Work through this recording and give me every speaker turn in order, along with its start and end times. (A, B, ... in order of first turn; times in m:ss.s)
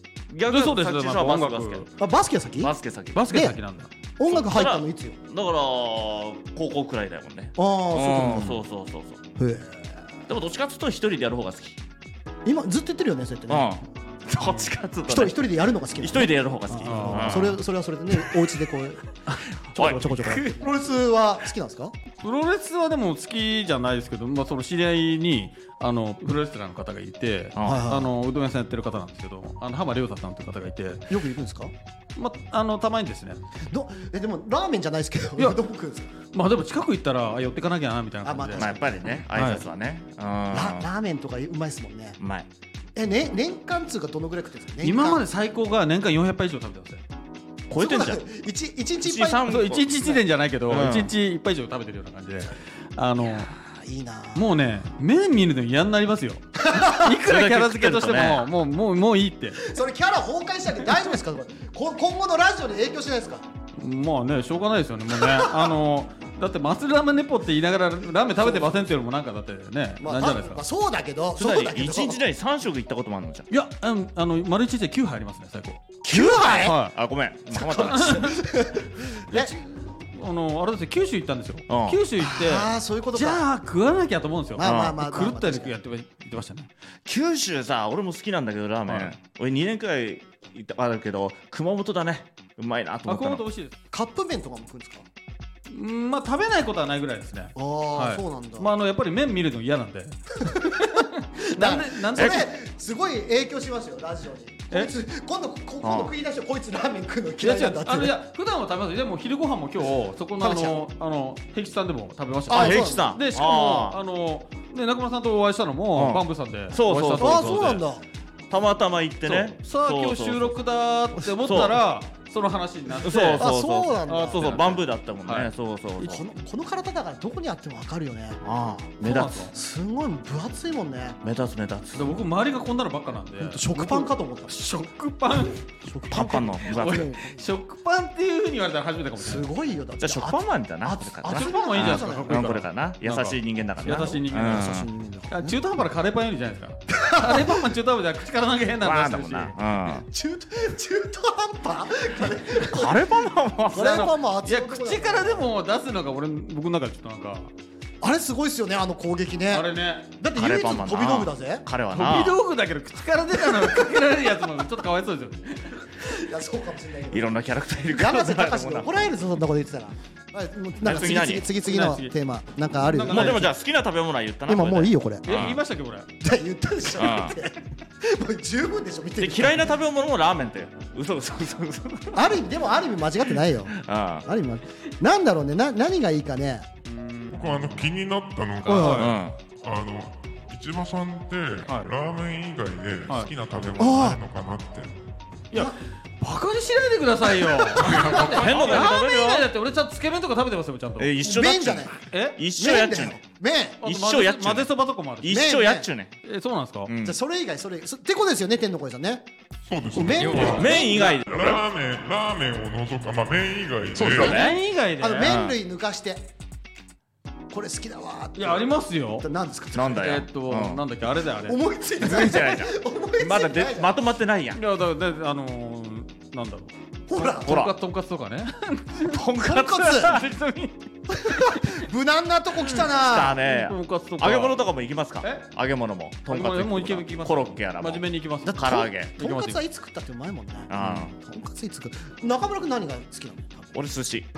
0:00.3-0:01.9 A
0:00.5-0:01.9 B
0:02.0-0:02.7 C
0:02.6-0:03.3 A
0:03.1-0:03.9 B
0:03.3-0:03.6 C
0:04.2-0:05.2 C
0:04.3-0:09.2 A
0:07.6-0:08.6 C
0:09.4-0:10.0 C
0:10.3-0:11.8 A
0:12.4-0:13.8 C
0:13.5-0:15.5 A
0:15.1-0:21.9 C
0:16.0-0:17.6 A
0:16.8-0:17.6 B
0:19.8-0:20.4 A
0:20.2-0:20.6 B
0:22.2-0:31.1 B
0:27.6-0:27.9 A
0:27.6-0:28.1 C
0:31.1-0:31.7 C
0:32.2-0:33.4 B
0:33.7-0:36.1 C
0:36.3-0:38.7 B
0:38.2-0:39.2 C
0:38.6-0:40.9 A
0:39.3-0:39.6 B
0:40.5-0:42.2 C
0:42.2-0:42.5 A
0:43.0-0:45.2 C
0:44.8-0:47.0 B
0:47.7-0:48.2 A
0:47.8-0:49.5 C
0:49.0-0:51.1 A
0:49.5-0:53.5 B
0:53.6-0:54.5 C
0:54.4-0:59.7 B
0:56.6-0:57.1 C
0:57.2-0:58.5 A
0:59.6-1:03.5 C
1:03.8-1:10.6 B
1:05.2-1:05.7 C
1:08.4-1:08.8 C
1:10.0-1:12.2 C
1:11.4-1:13.5 A
1:13.5-1:16.0 B
1:16.0-1:16.8 C
1:16.1-1:18.3 A
1:16.6-1:16.9 B
1:17.5-1:19.5 C
1:17.8-1:18.4 B
1:19.3-1:26.7 B
1:21.7-1:22.0 A
1:22.2-1:23.4 C
1:24.6-1:25.8 C
1:24.6-1:25.0 A
1:27.1-1:33.4 A
1:28.9-1:29.1 B
1:33.1-1:33.8 B
1:33.9-1:35.1 C
1:35.7-1:42.5 B
1:37.6-1:38.7 C
1:40.4-1:48.2 C
1:42.2-1:42.4 A
1:45.8-1:46.1 A
1:47.4-1:57.8 B
1:50.4-1:50.8 C
1:52.5-1:53.1 C
1:52.5-1:54.0 A
1:56.0-1:57.8 A
1:57.2-1:58.0 C
1:58.5-2:00.5 A
1:59.2-2:03.5 B
2:01.4-2:01.8 A
2:03.0-2:06.2 A
2:03.4-2:04.7 C
2:04.1-2:05.5 B
2:06.0-2:08.4 C
2:08.4-2:09.4 A
2:09.0-2:09.5 B
2:09.5-2:11.2 C
2:11.2-2:12.2 A
2:11.9-2:15.6 B
2:13.4-2:14.7 C
2:15.7-2:17.4 C
2:16.1-2:17.1 A
2:16.7-2:19.5 B
2:19.2-2:22.4 C
2:20.0-2:24.9 A
2:21.3-2:24.7 B
2:23.9-2:25.6 C
2:25.3-2:29.6 B
2:26.9-2:27.6 C
2:28.8-2:30.1 A
2:29.9-2:33.1 C
2:32.6-2:34.2 A
2:33.7-2:35.5 C
2:34.4-2:37.5 B
2:38.0-2:41.7 C
2:39.5-2:40.1 B
2:40.4-2:42.4 A
2:41.9-2:46.3 B
2:46.1-2:47.3 C
2:47.1-2:49.1 A
2:47.9-2:53.6 C
2:50.8-2:51.5 A
2:50.9-2:52.1 B
2:52.8-2:53.5 B
2:53.1-2:55.6 A
2:54.5-2:55.4 C
2:55.2-2:56.1 B
2:56.2-2:59.8 C
2:57.0-2:57.4 A
2:59.2-3:02.3 A
3:02.1-3:06.7 C
3:03.7-3:04.3 A
3:06.9-3:07.6 B
3:07.3-3:15.0 D
3:08.6-3:09.1 C
3:08.6-3:09.2 B
3:08.9-3:09.4 A
3:13.8-3:14.2 C
3:15.5-3:21.1 B
3:17.4-3:18.8 C
3:17.8-3:18.4 D
3:18.1-3:19.5 A
3:21.0-3:23.2 A
3:21.2-3:22.0 C
3:22.1-3:22.4 B
3:22.6-3:23.8 C
3:23.8-3:25.5 B
3:23.8-3:26.1 A
3:25.3-3:25.9 C
3:26.2-3:26.9 B
3:26.9-3:27.2 A
3:27.0-3:29.3 C
3:29.7-3:34.4 D
3:29.9-3:31.1 C
3:30.1-3:31.1 B
3:30.4-3:31.6 A
3:34.0-3:34.6 A
3:34.0-3:35.4 B
3:34.3-3:36.3 C
3:35.2-3:35.6 A
3:37.5-3:40.1 C
3:38.4-3:39.3 B
3:39.7-3:40.8 A
3:40.0-3:41.6 B
3:41.4-3:44.0 C
3:42.0-3:44.6 A
3:44.5-3:49.2 B
3:47.1-3:47.6 C
3:47.4-3:47.7 A
3:49.1-3:50.7 A
3:49.4-3:50.2 C
3:50.0-3:50.7 B
3:51.1-3:53.4 C
3:52.9-3:59.1 A
3:53.4-3:54.6 B
3:55.2-3:55.5 B
3:56.3-3:59.6 B
3:58.5-4:03.7 C
4:00.7-4:01.1 A
4:03.7-4:04.3 A